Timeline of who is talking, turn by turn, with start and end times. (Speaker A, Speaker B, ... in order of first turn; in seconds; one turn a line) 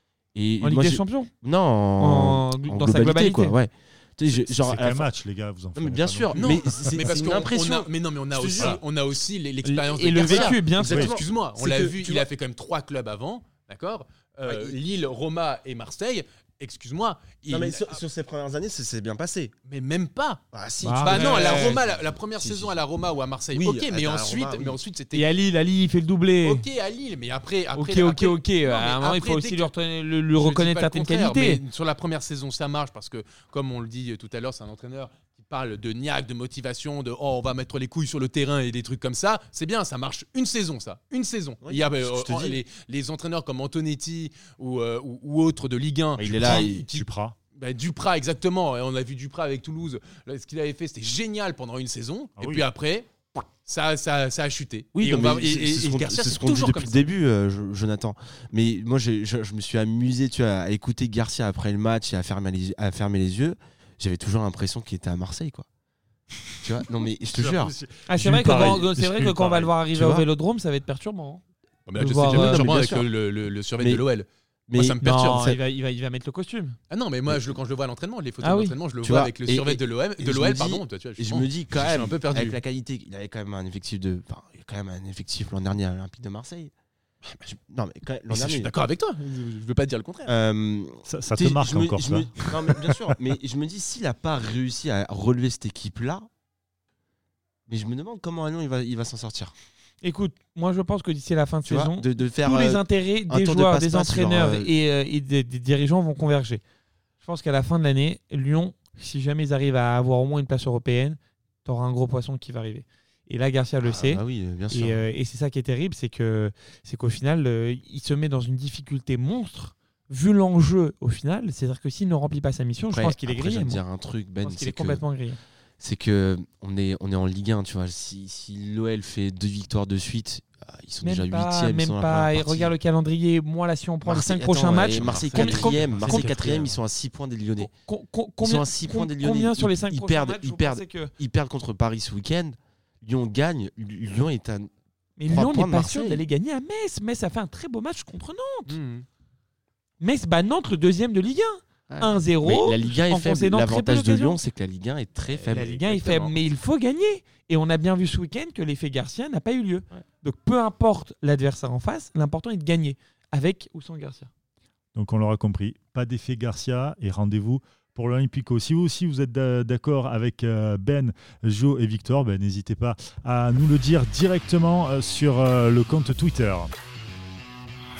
Speaker A: 0.3-5.1
Speaker B: 0.6-1.3
Speaker B: 2.0-3.5
Speaker C: 4.4-7.0
Speaker A: 5.7-8.8
Speaker D: 6.3-18.0
Speaker B: 9.6-11.1
Speaker A: 10.2-12.3
Speaker C: 10.8-11.1
Speaker A: 14.4-14.8
Speaker A: 17.5-19.5
Speaker D: 19.7-20.4
Speaker A: 20.5-22.8
Speaker B: 20.8-21.8
Speaker D: 21.0-25.2
Speaker A: 23.5-24.8
Speaker B: 25.1-26.6
Speaker D: 26.4-29.7
Speaker B: 27.8-31.6
Speaker D: 30.4-57.1
Speaker A: 41.6-42.6
Speaker A: 46.2-46.9
Speaker C: 46.2-47.4
Speaker C: 52.4-52.6
Speaker A: 54.9-65.7
Speaker A: 66.6-67.7
Speaker C: 67.3-69.7
Speaker B: 68.1-71.4
Speaker A: 69.9-70.3
Speaker D: 71.9-75.5
Speaker B: 71.9-73.0
Speaker A: 72.3-73.1
Speaker A: 74.7-75.6
Speaker B: 75.0-76.8
Speaker D: 76.9-82.6
Speaker B: 78.4-78.8
Speaker A: 79.0-86.7
Speaker A: 87.5-88.7
Speaker D: 88.3-90.3
Speaker A: 90.2-96.3
Speaker C: 91.0-92.9
Speaker A: 97.7-99.5
Speaker B: 100.0-106.6
Speaker A: 101.7-104.7
Speaker B: 107.2-123.8
Speaker A: 113.8-115.0
Speaker A: 122.9-125.0
Speaker B: 124.4-125.4
Speaker A: 125.8-132.7
Speaker B: 131.0-136.4
Speaker A: 134.0-137.7
Speaker D: 134.9-136.8
Speaker B: 137.6-141.1
Speaker A: 138.4-144.7
Speaker B: 145.2-148.8
Speaker A: 145.3-146.2
Speaker D: 148.7-149.1
Speaker B: 150.0-154.4
Speaker A: 151.9-155.8
Speaker D: 155.3-156.3
Speaker B: 155.5-164.3
Speaker C: 164.9-176.7